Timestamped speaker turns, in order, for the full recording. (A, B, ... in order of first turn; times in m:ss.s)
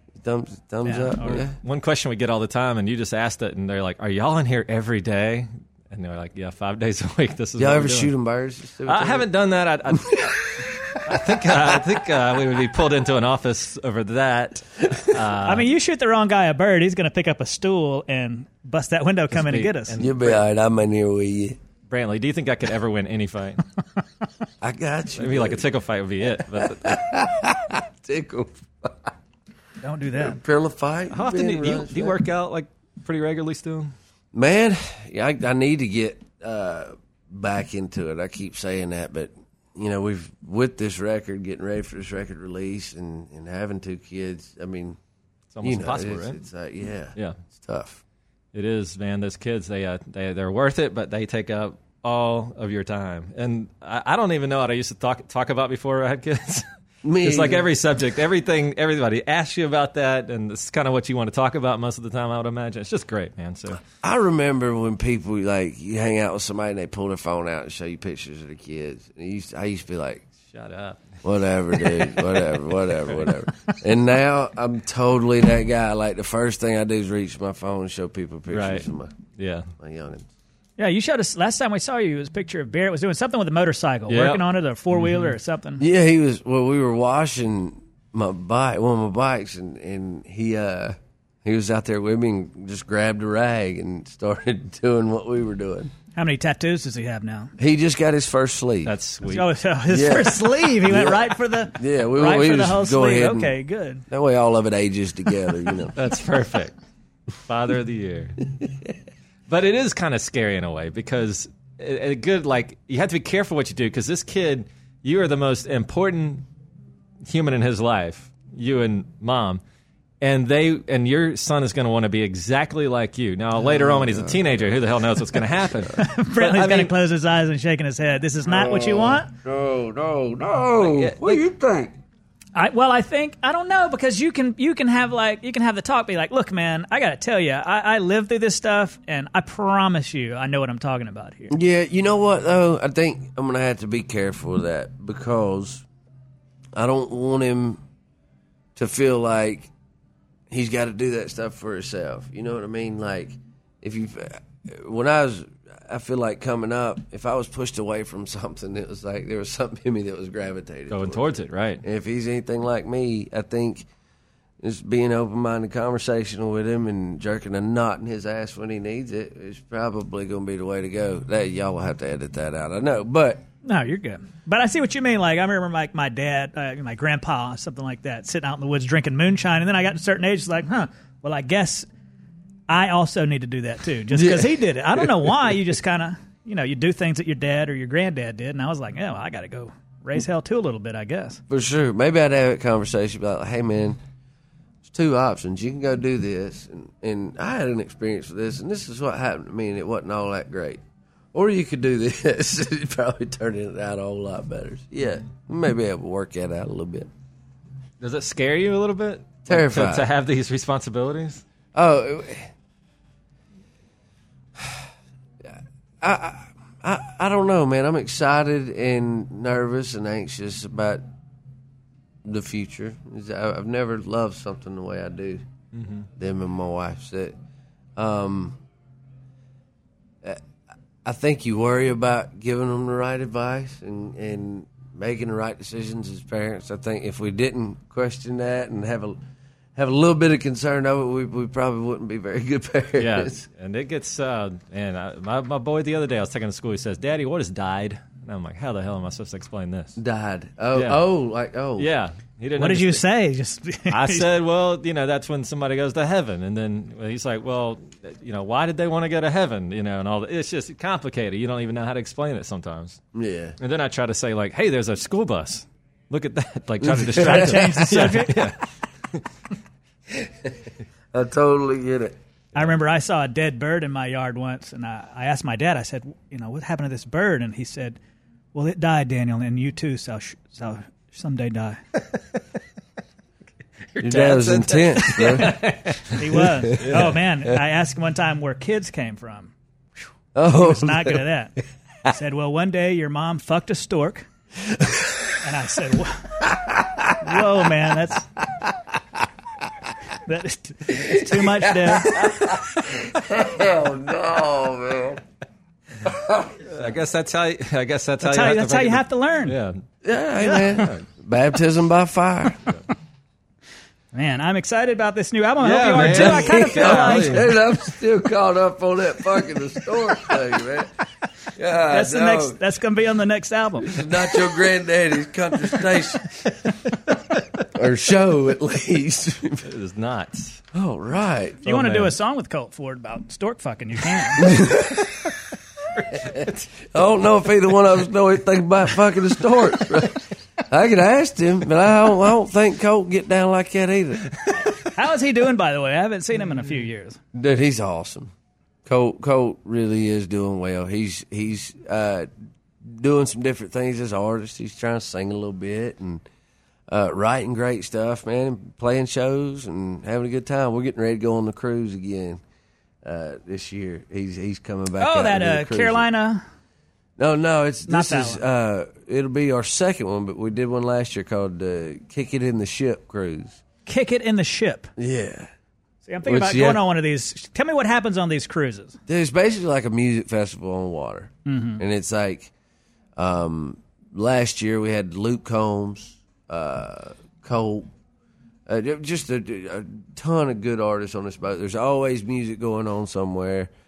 0:00.2-0:01.6 A
0:00.8-0:01.4 B
0:01.6-0:08.1 C
0:07.6-0:09.3 A
0:08.9-0:10.3 C
0:09.9-0:11.7 A
0:11.0-0:15.7 C
0:15.4-0:19.9 B
0:19.3-0:20.4 C
0:20.0-0:21.6 A
0:21.9-0:23.6 C
0:24.6-0:25.7 A
0:25.2-0:27.0 C
0:26.3-0:29.1 A
0:29.8-0:30.4 B
0:30.1-0:32.2 A
0:31.1-0:33.9 C
0:34.3-0:45.0 A
0:45.5-0:46.4 C
0:45.6-0:48.0 A
0:48.5-0:56.7 C
0:57.0-0:57.7 A
0:57.2-1:03.8 C
1:03.9-1:10.2 A
1:10.5-1:11.0 C
1:11.2-1:19.2 A
1:11.8-1:12.2 C
1:18.5-1:18.9 C
1:19.4-1:19.7 C
1:19.8-1:20.3 A
1:20.8-1:25.8 B
1:24.1-1:25.4 C
1:25.8-1:35.9 A
1:36.2-1:37.5 B
1:37.6-1:39.0 A
1:38.8-1:39.5 C
1:39.3-1:44.1 B
1:39.9-1:43.5 A
1:44.1-1:46.0 A
1:46.0-1:46.7 C
1:47.4-1:48.4 C
1:49.5-1:56.4 C
1:57.3-1:59.6 C
2:00.2-2:06.9 C
2:03.6-2:05.4 A
2:05.9-2:09.3 B
2:08.4-2:11.9 A
2:10.8-2:11.4 C
2:12.6-2:21.5 B
2:21.5-2:25.8 A
2:26.8-2:27.8 A
2:28.8-2:29.7 A
2:30.5-2:43.9 A
2:40.9-2:41.8 C
2:44.6-2:53.4 A
2:53.6-3:01.9 B
3:02.7-3:11.4 B
3:04.1-3:05.1 A
3:11.5-3:14.0 A
3:14.8-3:20.8 A
3:21.3-3:27.1 A
3:28.0-3:31.4 C
3:29.5-3:30.1 A
3:31.8-3:32.5 A
3:34.6-3:34.8 A
3:35.4-3:41.0 A
3:42.2-3:45.4 A
3:45.7-3:46.1 C
3:46.2-3:47.4 A
3:48.0-3:48.6 A
3:51.0-3:59.2 A
3:59.8-4:03.4 A
4:03.0-4:10.0 C
4:10.0-4:11.9 A
4:10.7-4:11.0 C
4:11.8-4:13.0 C
4:12.6-4:14.3 B
4:13.9-4:23.0 C
4:23.1-4:23.6 A
4:23.6-4:28.6 C
4:26.8-4:28.2 A
4:27.1-4:28.4 B
4:30.1-4:30.5 A
4:31.1-4:32.2 A
4:32.6-4:38.0 B
4:38.5-4:41.8 B
4:43.9-4:47.2 C
4:44.0-4:45.6 A
4:45.4-4:49.5 B
4:46.6-4:47.1 A
4:50.4-4:51.3 A
4:50.5-4:51.5 B
4:52.1-4:54.3 B
4:54.8-4:55.2 A
4:55.4-4:56.5 B
4:56.6-4:57.1 A
4:57.2-4:58.3 B
5:00.3-5:02.2 B
5:00.9-5:05.2 A
5:06.0-5:06.8 A
5:06.7-5:09.8 C
5:08.2-5:09.6 B
5:10.0-5:12.8 A
5:10.5-5:11.0 C
5:14.1-5:17.4 B
5:15.6-5:17.5 C
5:16.0-5:20.9 A
5:21.6-5:22.6 A
5:21.9-5:24.0 B
5:23.8-5:26.4 A
5:27.7-5:29.7 A
5:29.6-5:30.6 C
5:30.7-5:31.6 A
5:31.6-5:34.6 B
5:31.7-5:32.2 C
5:34.4-5:35.1 A
5:36.0-5:36.7 C
5:36.2-5:44.3 A
5:44.8-5:47.2 B
5:47.3-5:48.3 A
5:48.8-5:52.3 A
5:52.8-5:56.2 A
5:56.9-6:02.4 A
6:03.0-6:06.1 A
6:05.0-6:06.4 B
6:07.2-6:13.6 A
6:07.9-6:08.4 B
6:13.9-6:14.9 B
6:15.0-6:15.5 A
6:16.1-6:19.0 B
6:16.2-6:16.9 A
6:19.1-6:22.5 A
6:21.5-6:21.8 B
6:23.2-6:27.9 A
6:28.7-6:33.7 A